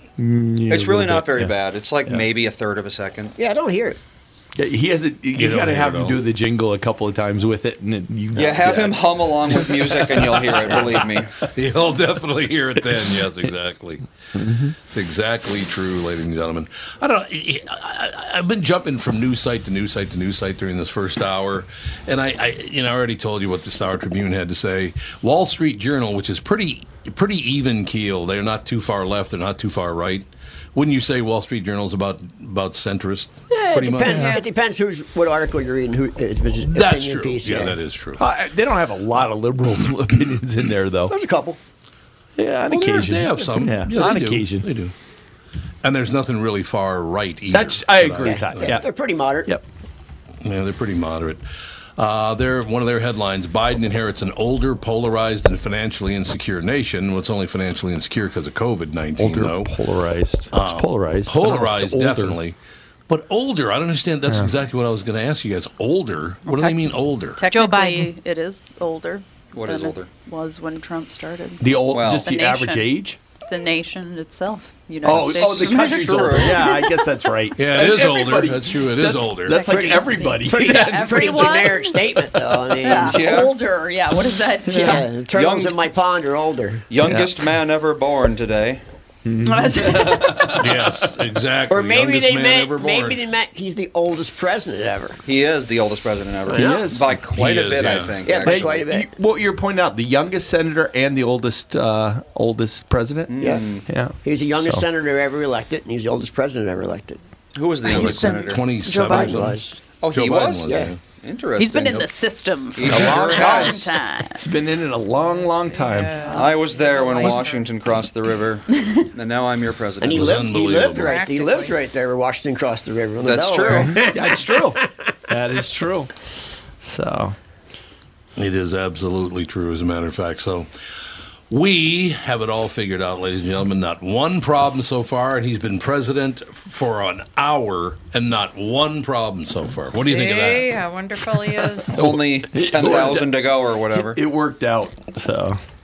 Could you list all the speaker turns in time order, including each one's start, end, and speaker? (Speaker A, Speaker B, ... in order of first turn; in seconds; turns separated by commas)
Speaker A: 0.2-1.5, Speaker B: 0.7-3.4, Speaker C: 3.4-4.0, Speaker A: 4.6-11.5, Speaker D: 5.3-6.2, Speaker B: 8.4-11.4, Speaker D: 11.5-14.0, Speaker A: 12.8-13.3, Speaker A: 14.3-14.8, Speaker D: 14.9-34.3, Speaker C: 33.5-37.8, Speaker E: 34.1-34.5, Speaker D: 36.7-38.2, Speaker A: 38.2-41.1, Speaker C: 41.1-41.6, Speaker A: 42.4-44.7, Speaker D: 42.7-44.9, Speaker D: 45.8-48.8, Speaker A: 47.5-48.9, Speaker C: 48.2-49.5, Speaker D: 50.4-51.5, Speaker D: 52.0-59.8, Speaker A: 59.2-62.4, Speaker D: 60.5-62.6, Speaker D: 63.1-67.4, Speaker A: 64.3-64.5, Speaker F: 67.3-73.0, Speaker E: 67.5-68.1, Speaker B: 69.5-70.1, Speaker A: 71.6-73.2, Speaker B: 71.9-72.3, Speaker F: 73.5-77.1, Speaker A: 75.0-81.6, Speaker B: 75.3-76.7, Speaker D: 77.6-79.6, Speaker F: 79.5-85.1, Speaker C: 79.6-83.4, Speaker B: 82.9-83.6, Speaker A: 84.7-85.0, Speaker C: 84.8-86.9, Speaker B: 85.3-85.8, Speaker B: 86.9-88.8, Speaker A: 87.0-87.3, Speaker A: 89.2-91.1, Speaker F: 89.5-90.6, Speaker D: 90.5-93.2, Speaker C: 91.7-95.2, Speaker B: 95.3-98.8, Speaker C: 96.5-96.9, Speaker A: 96.5-97.0, Speaker D: 97.3-98.2, Speaker C: 98.2-99.1, Speaker A: 98.5-103.3, Speaker B: 103.3-103.9, Speaker C: 103.4-103.7, Speaker A: 103.8-104.8, Speaker C: 104.2-107.2, Speaker B: 107.5-108.6, Speaker F: 107.8-109.5, Speaker D: 107.9-109.6, Speaker C: 109.0-109.8, Speaker B: 110.0-112.1, Speaker D: 110.1-111.0, Speaker C: 110.7-110.9, Speaker F: 111.6-114.4, Speaker B: 112.7-113.8, Speaker A: 112.9-113.8, Speaker A: 114.4-116.2, Speaker E: 115.2-117.7, Speaker F: 116.0-117.4, Speaker B: 116.3-120.4, Speaker C: 120.0-124.9, Speaker D: 120.1-121.2, Speaker E: 120.9-121.8, Speaker B: 123.2-124.1, Speaker A: 123.7-126.1, Speaker A: 126.8-127.4, Speaker D: 128.4-130.7, Speaker D: 131.5-140.8, Speaker E: 139.9-142.0, Speaker A: 141.9-145.6, Speaker B: 141.9-144.2